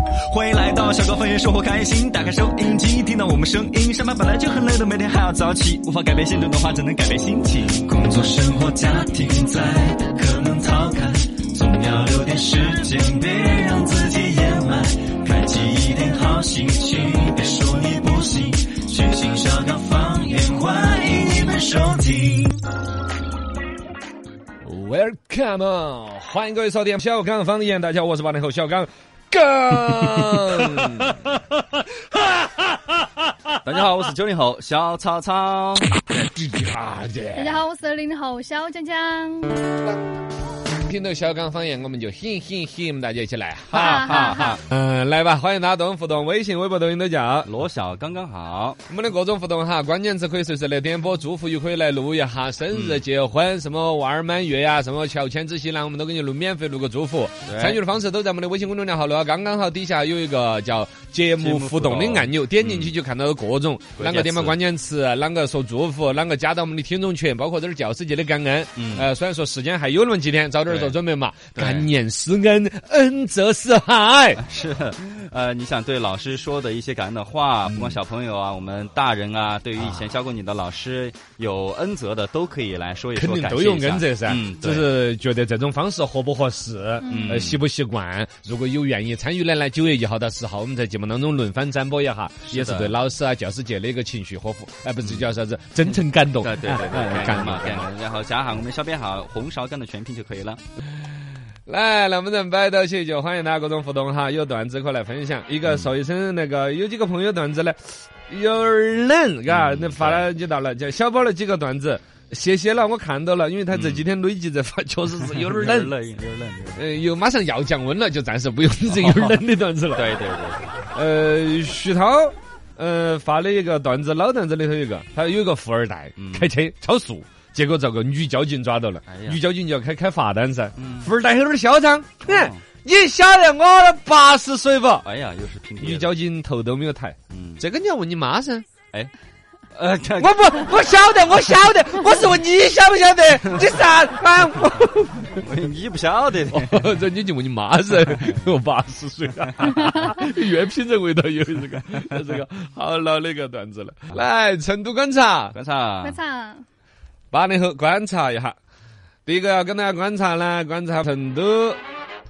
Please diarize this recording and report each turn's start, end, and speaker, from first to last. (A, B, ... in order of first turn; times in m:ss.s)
0:00.3-0:22.6 A
0:24.6-0:32.9 B
0:33.6-0:36.0 A
0:36.1-0:37.6 B
0:37.4-0:39.7 C
0:40.8-0:47.5 B
0:43.7-0:44.6 A
0:43.7-0:44.6 C
0:47.4-0:48.8 A
0:48.9-1:14.4 B
0:52.7-0:53.0 A
0:57.4-0:57.8 A
1:01.4-1:03.0 A
1:04.0-1:04.6 A
1:08.8-1:09.1 A
1:10.7-1:11.0 A
1:11.6-1:11.9 A
1:14.4-1:25.0 A
1:17.7-1:18.0 B
1:19.8-1:20.1 B
1:23.2-1:37.9 B
1:27.0-1:27.4 C
1:27.0-1:27.6 A
1:32.4-1:33.0 A
1:35.0-1:35.3 A
1:35.9-1:40.6 A
1:41.7-1:55.9 B
1:45.6-1:45.9 A
1:49.5-1:50.3 A
1:53.7-1:54.1 A
1:55.2-1:56.9 A
1:56.8-2:00.1 B
1:58.9-1:59.4 A
1:59.9-2:00.8 A
2:00.9-2:15.0 B
2:06.2-2:06.5 A
2:09.1-2:09.4 A
2:10.8-2:11.1 A
2:12.2-2:12.6 A
2:15.0-2:16.2 A
2:15.8-2:18.7 B
2:17.3-2:17.6 A
2:19.7-2:20.9 A
2:20.2-2:25.4 B
2:25.3-2:27.0 A
2:26.5-2:35.6 B
2:28.2-2:28.5 A
2:35.5-2:36.2 A
2:36.0-2:36.6 C
2:37.3-2:38.6 B
2:39.3-2:41.8 B